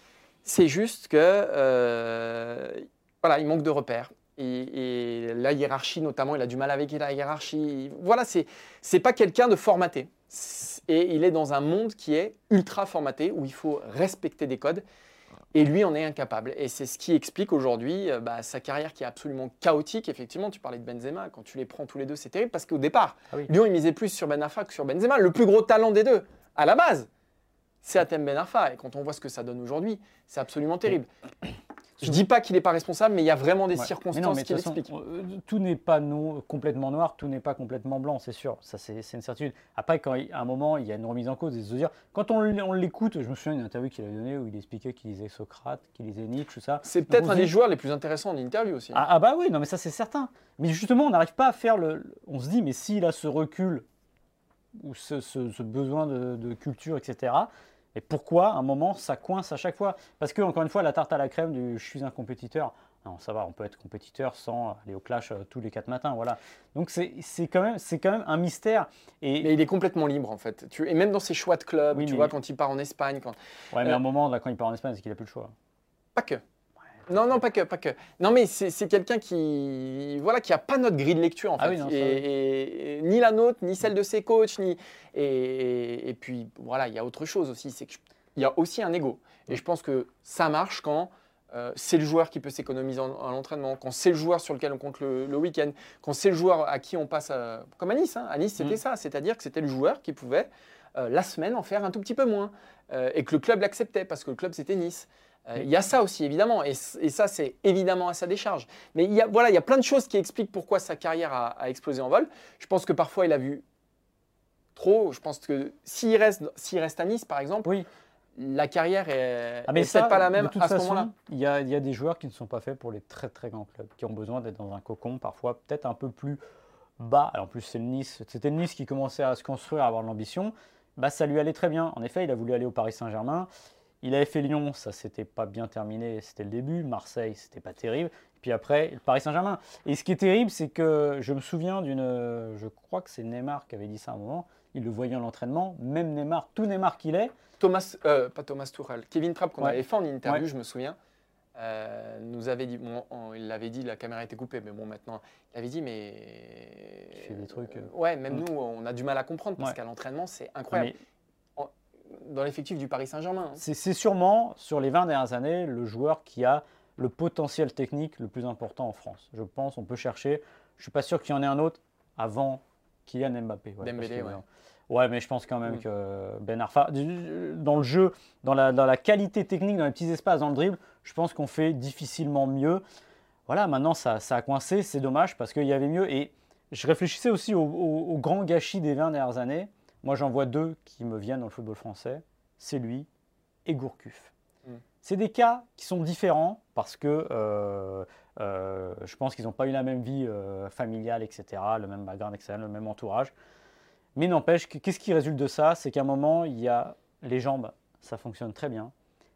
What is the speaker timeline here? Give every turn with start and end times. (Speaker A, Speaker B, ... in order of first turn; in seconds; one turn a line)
Speaker A: 0.4-14.8
Speaker A: 15.5-27.1
Speaker A: 27.8-31.1
Speaker A: 32.0-34.9
Speaker B: 33.8-47.5
Speaker A: 46.8-49.0
Speaker B: 48.9-53.9
Speaker B: 54.7-69.5
Speaker A: 69.4-74.0
Speaker B: 71.9-72.3
Speaker B: 73.7-75.5
Speaker A: 76.2-76.4
Speaker A: 77.1-113.6
Speaker B: 81.6-82.2
Speaker A: 114.7-117.7
Speaker A: 118.3-121.1
Speaker B: 119.7-126.4
Speaker B: 127.0-133.5
Speaker B: 134.0-147.3
Speaker A: 147.6-151.0
Speaker B: 149.6-150.4
Speaker A: 151.6-160.9
Speaker B: 157.1-158.4
Speaker B: 160.7-161.0
Speaker A: 161.6-163.6
Speaker B: 163.6-182.8
Speaker A: 173.8-174.4
Speaker B: 183.5-193.1
Speaker B: 193.7-194.3
Speaker B: 195.0-203.3
Speaker B: 204.2-208.9